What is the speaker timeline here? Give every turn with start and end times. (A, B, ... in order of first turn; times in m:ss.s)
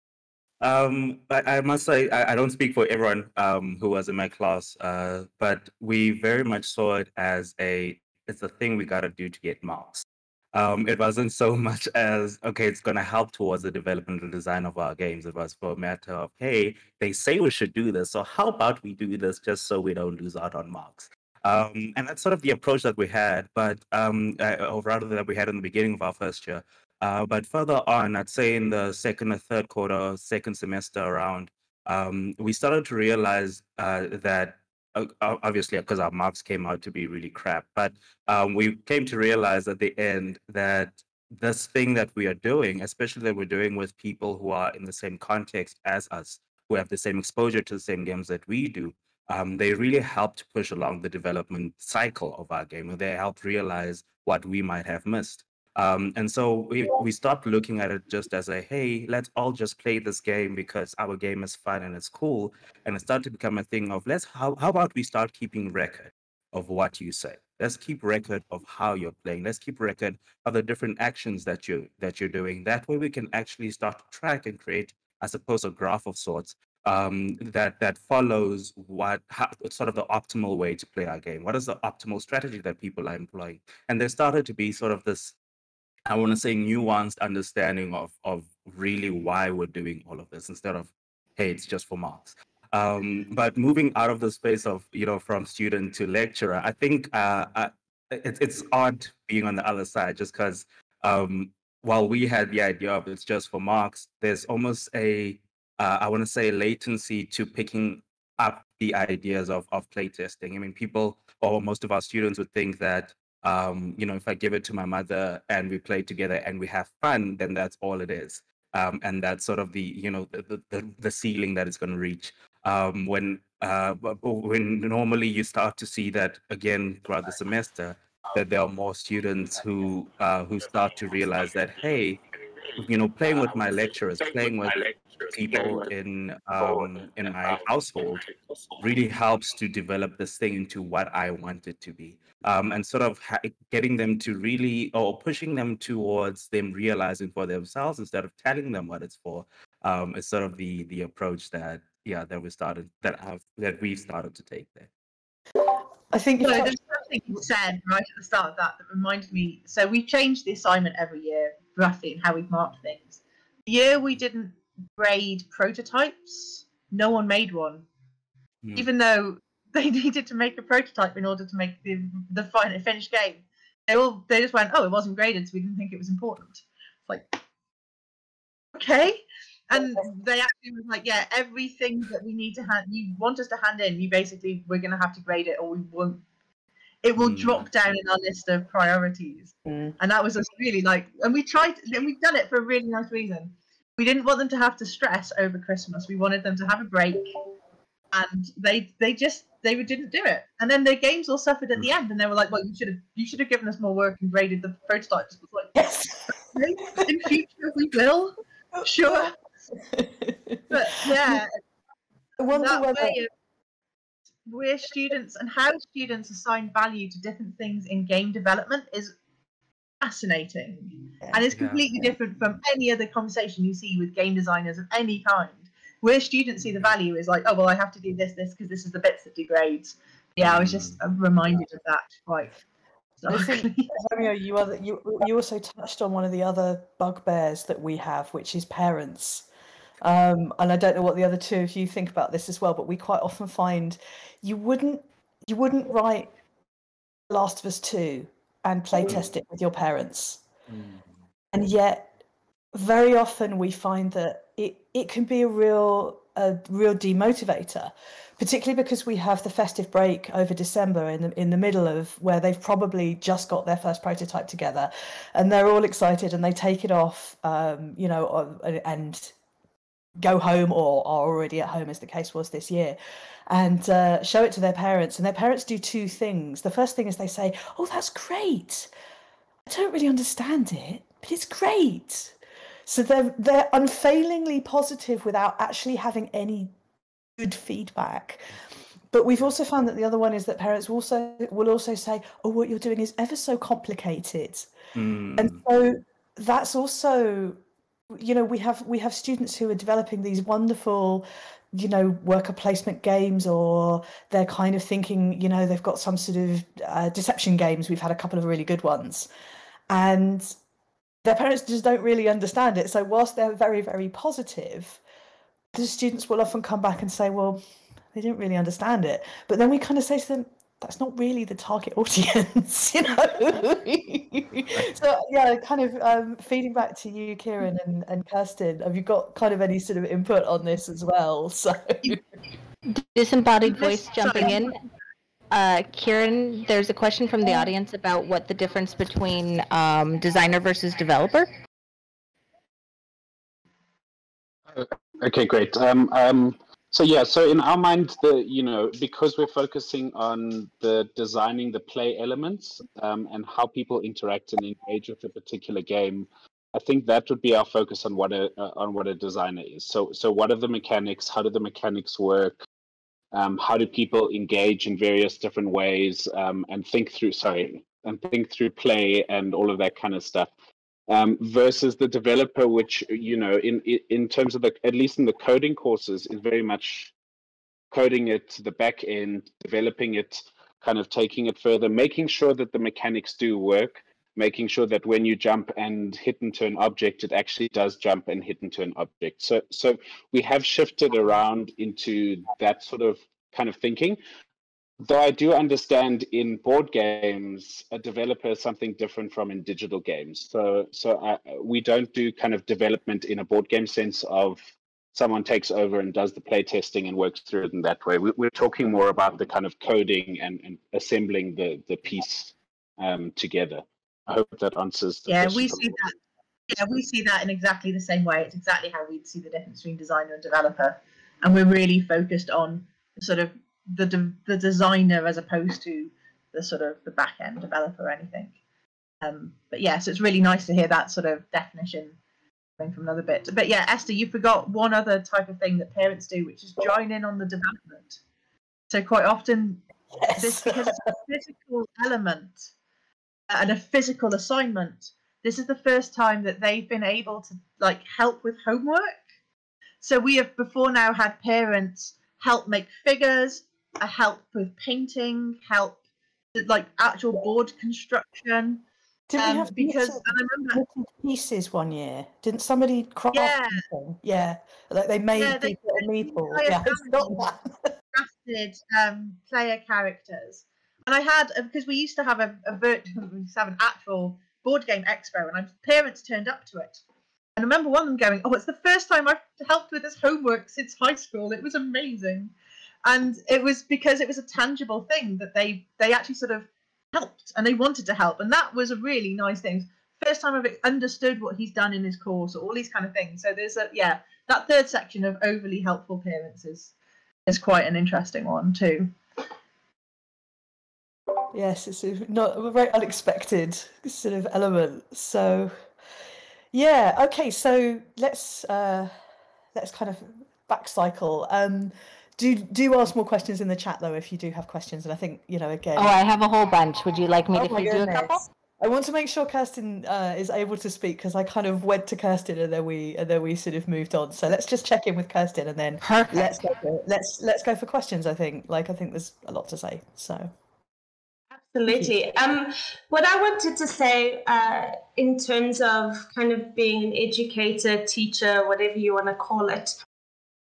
0:00.6-1:25.4 A
1:26.1-2:12.2 A
2:12.8-2:34.9 A
2:36.1-2:36.8 B
2:36.4-2:47.9 C
2:48.8-2:57.4 C
2:58.8-3:06.2 C
3:07.0-3:17.3 C
3:07.2-3:07.7 A
3:09.7-3:09.9 B
3:18.1-3:29.4 C
3:25.8-3:26.4 B
3:28.8-3:31.4 B
3:30.7-3:31.5 C
3:32.4-3:33.2 B
3:32.5-3:33.3 C
3:34.4-3:39.2 C
3:40.0-3:52.6 C
3:41.5-3:41.8 A
3:50.4-3:51.0 A
3:53.2-3:53.9 C
3:53.3-3:59.5 B
4:00.0-4:06.3 B
4:07.3-4:10.4 B
4:10.7-4:11.1 A
4:11.5-4:12.1 B
4:12.7-4:29.4 B
4:30.2-4:33.0 B
4:33.5-4:38.9 B
4:39.7-4:46.7 B
4:47.4-4:48.5 B
4:49.1-4:54.7 B
4:55.0-4:55.6 A
4:55.4-4:57.6 B
4:58.1-5:09.3 B
5:09.9-5:10.5 B
5:11.2-5:15.0 B
5:15.7-5:17.6 B
5:18.1-5:32.2 B
5:32.9-5:34.8 D
5:33.6-5:34.7 C
5:35.5-5:41.5 D
5:44.7-6:02.7 E
6:03.3-6:10.5 E
6:11.1-6:17.1 E
6:17.9-6:34.2 E
6:35.0-6:56.0 E
6:55.3-6:56.2 C
6:56.7-7:08.6 C
7:09.2-7:12.2 C
7:12.8-7:18.2 C
7:18.9-7:19.8 C
7:20.2-7:21.1 B
7:20.4-7:22.7 C
7:23.5-7:29.2 C
7:30.0-7:36.0 C
7:36.5-7:38.8 C
7:39.3-7:47.9 B
7:39.4-7:40.8 C
7:43.3-7:43.8 C
7:45.4-7:47.5 C
7:48.1-7:57.0 C
7:57.6-8:02.5 C
8:03.0-8:16.9 C
8:17.5-8:19.2 C
8:21.5-8:25.8 B
8:26.7-8:29.1 B
8:29.7-8:36.2 B
8:36.0-8:38.5 D
8:37.5-8:50.5 B
8:46.0-8:46.7 D
8:51.5-9:00.0 F